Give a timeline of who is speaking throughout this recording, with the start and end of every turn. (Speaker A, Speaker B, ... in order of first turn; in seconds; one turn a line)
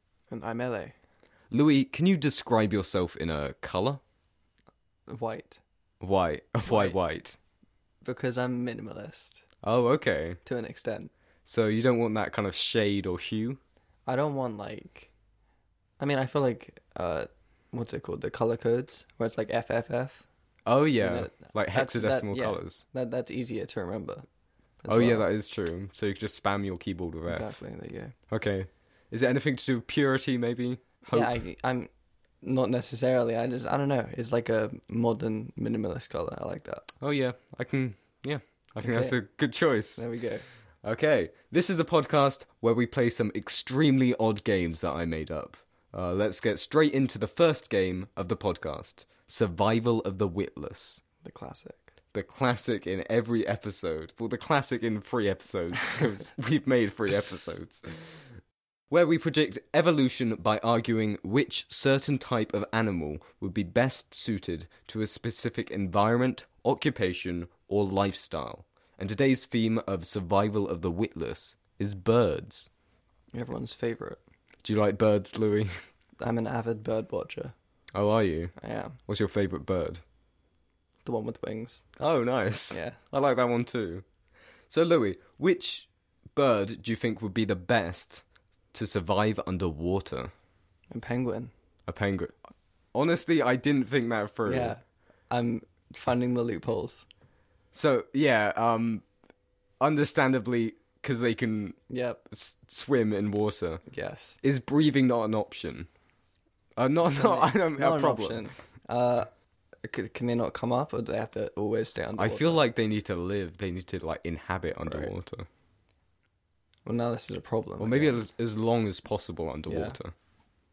Speaker A: 0.3-0.9
Speaker B: 1.5-4.0
Speaker A: 5.1-5.6
Speaker B: 6.0-7.4
Speaker A: 6.7-7.0
Speaker A: 8.0-9.4
Speaker B: 9.6-10.4
Speaker A: 10.4-11.1
Speaker B: 11.5-13.6
Speaker A: 14.1-15.1
Speaker A: 16.0-20.2
Speaker B: 20.7-22.8
Speaker A: 21.0-24.2
Speaker A: 24.8-25.3
Speaker B: 24.9-27.6
Speaker A: 27.3-28.1
Speaker B: 28.3-31.4
Speaker A: 31.1-31.9
Speaker A: 32.4-36.9
Speaker B: 37.0-40.0
Speaker A: 38.8-39.2
Speaker A: 40.0-40.4
Speaker B: 40.8-51.0
Speaker A: 51.2-51.9
Speaker B: 52.1-58.2
Speaker B: 58.9-72.7
Speaker A: 73.3-74.2
Speaker B: 74.6-75.7
Speaker A: 76.2-77.5
Speaker B: 77.9-78.5
Speaker A: 78.6-79.0
Speaker B: 79.1-80.0
Speaker A: 81.0-81.8
Speaker B: 82.0-84.0
Speaker A: 82.7-83.0
Speaker B: 84.7-90.3
Speaker A: 90.9-91.5
Speaker B: 91.9-92.3
Speaker B: 92.9-94.8
Speaker A: 94.5-94.8
Speaker A: 95.3-97.1
Speaker B: 97.7-99.0
Speaker B: 99.8-103.8
Speaker A: 101.9-102.2
Speaker A: 103.9-104.4
Speaker B: 104.4-105.9
Speaker B: 106.8-108.5
Speaker A: 107.1-109.3
Speaker A: 109.8-112.6
Speaker B: 112.2-115.5
Speaker A: 114.9-115.1
Speaker A: 116.8-118.2
Speaker B: 117.8-120.1
Speaker A: 119.7-120.0